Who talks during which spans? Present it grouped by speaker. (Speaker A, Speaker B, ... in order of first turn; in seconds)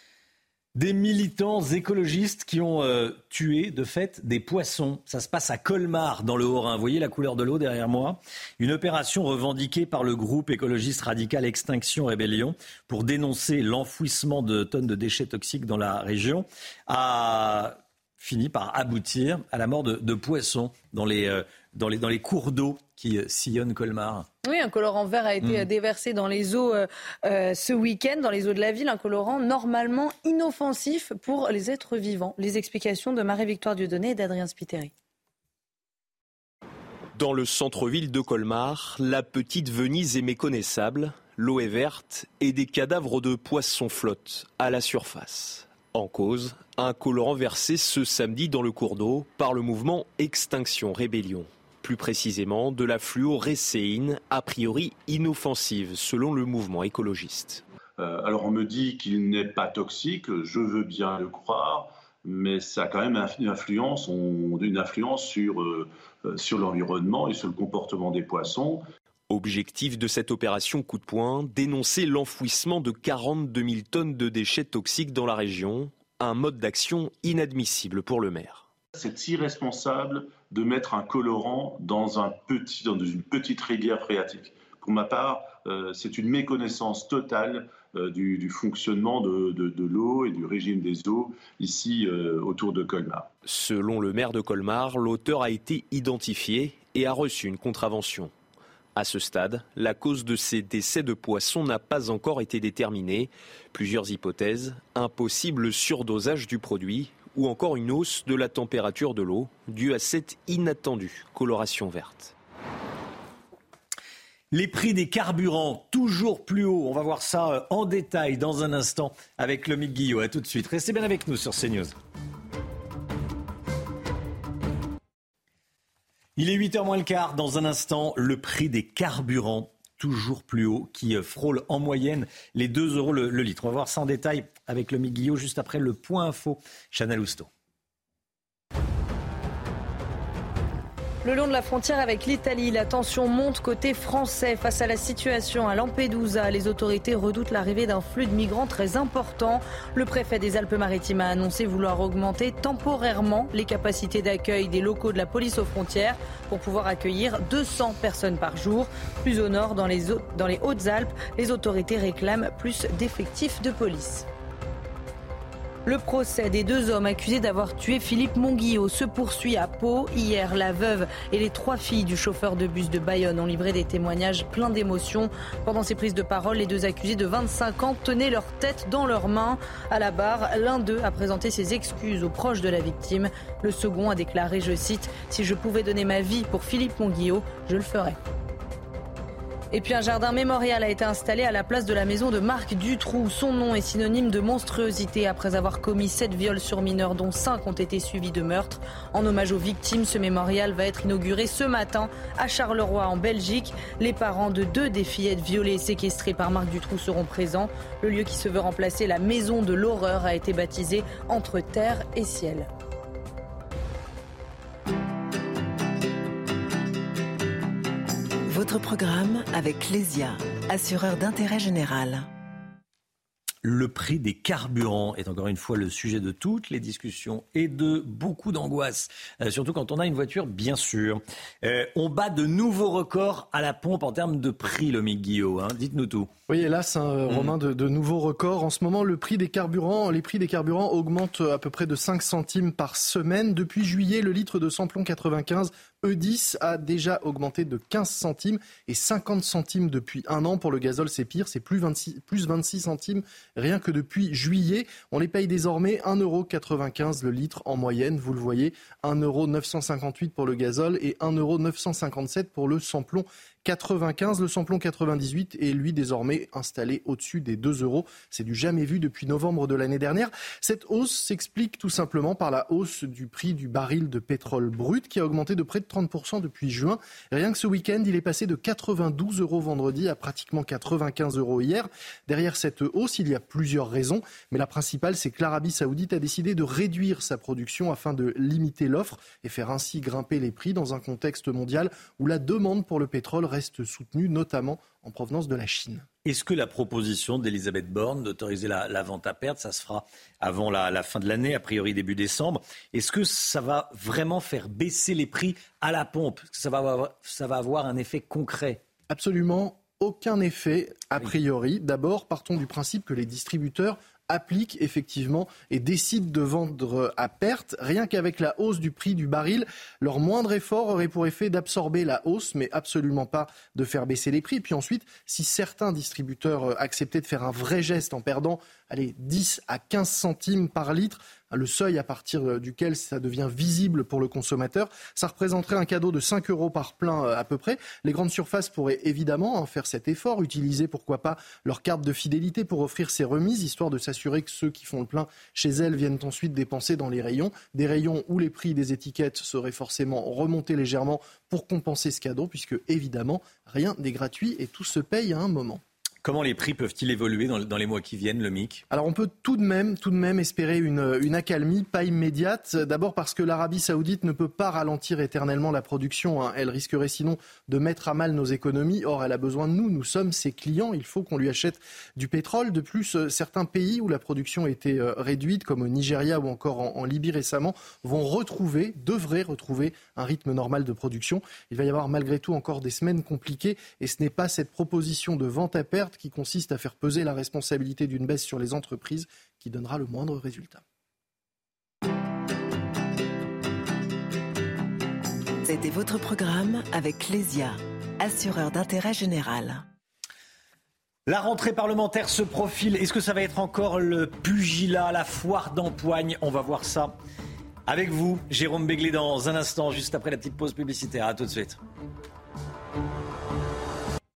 Speaker A: 0.8-24.3, 114.5-122.0, 126.4-137.5, 223.6-236.3, 296.2-308.8, 356.2-358.9, 401.3-407.2, 407.9-411.8
Speaker B: 24.4-34.9, 141.2-164.3, 165.9-188.2, 189.7-212.7
Speaker C: 37.2-57.6, 69.3-78.7, 93.5-98.3, 99.0-112.3
Speaker D: 58.0-68.8, 79.0-93.3
Speaker E: 218.5-222.3, 395.6-399.9
Speaker F: 236.5-296.1, 309.1-355.8, 358.9-390.8